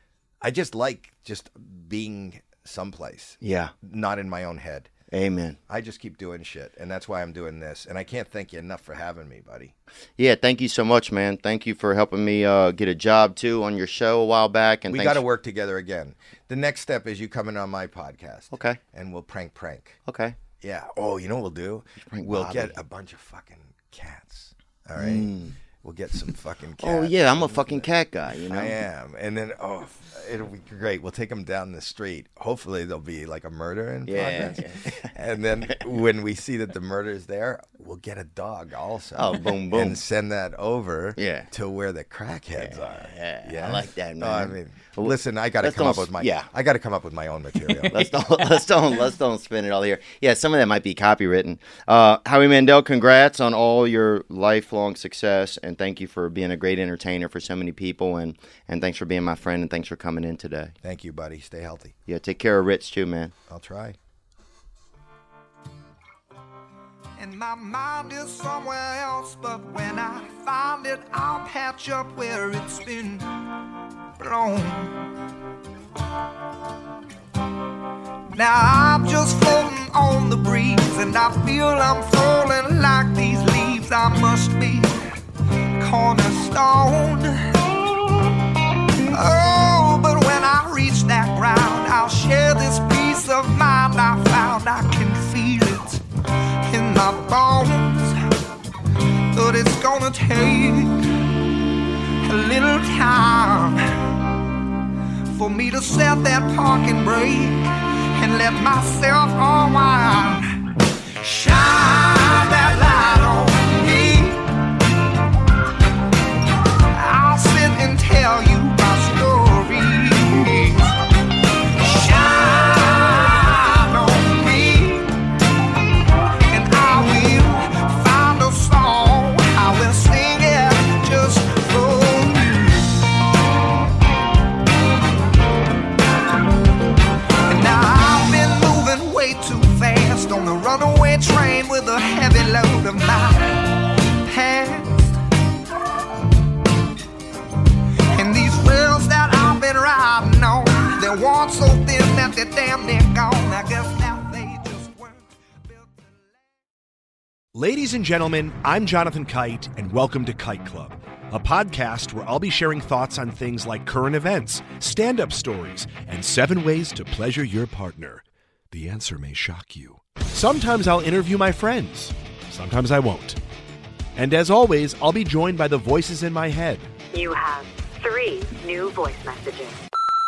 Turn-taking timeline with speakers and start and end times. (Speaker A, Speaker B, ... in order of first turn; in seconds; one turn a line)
Speaker A: 0.4-4.9
Speaker B: 3.4-3.7
Speaker B: 5.1-5.6
Speaker A: 5.7-9.7
Speaker B: 10.2-15.2
Speaker A: 14.9-20.0
Speaker B: 18.5-18.8
Speaker B: 20.1-20.4
Speaker A: 20.6-27.9
Speaker B: 22.0-22.8
Speaker B: 25.0-25.6
Speaker B: 26.8-28.8
Speaker A: 28.5-48.1
Speaker B: 34.1-35.1
Speaker B: 39.1-40.0
Speaker B: 41.2-41.5
Speaker B: 42.6-46.5
Speaker B: 47.9-60.8
Speaker A: 60.8-61.9
Speaker B: 62.1-63.4
Speaker A: 63.5-64.0
Speaker C: 67.2-73.3
Speaker C: 74.2-75.0
Speaker C: 78.3-85.0
Speaker C: 85.8-88.3
Speaker C: 89.0-96.0
Speaker C: 96.6-98.2
Speaker C: 99.3-101.0
Speaker C: 102.2-103.8
Speaker C: 105.3-114.5
Speaker C: 116.9-121.0
Speaker C: 121.8-125.2
Speaker C: 126.5-133.0
Speaker C: 137.4-145.2
Speaker C: 148.1-155.2
Speaker D: 157.5-173.4
Speaker D: 174.2-176.9
Speaker E: 177.1-179.8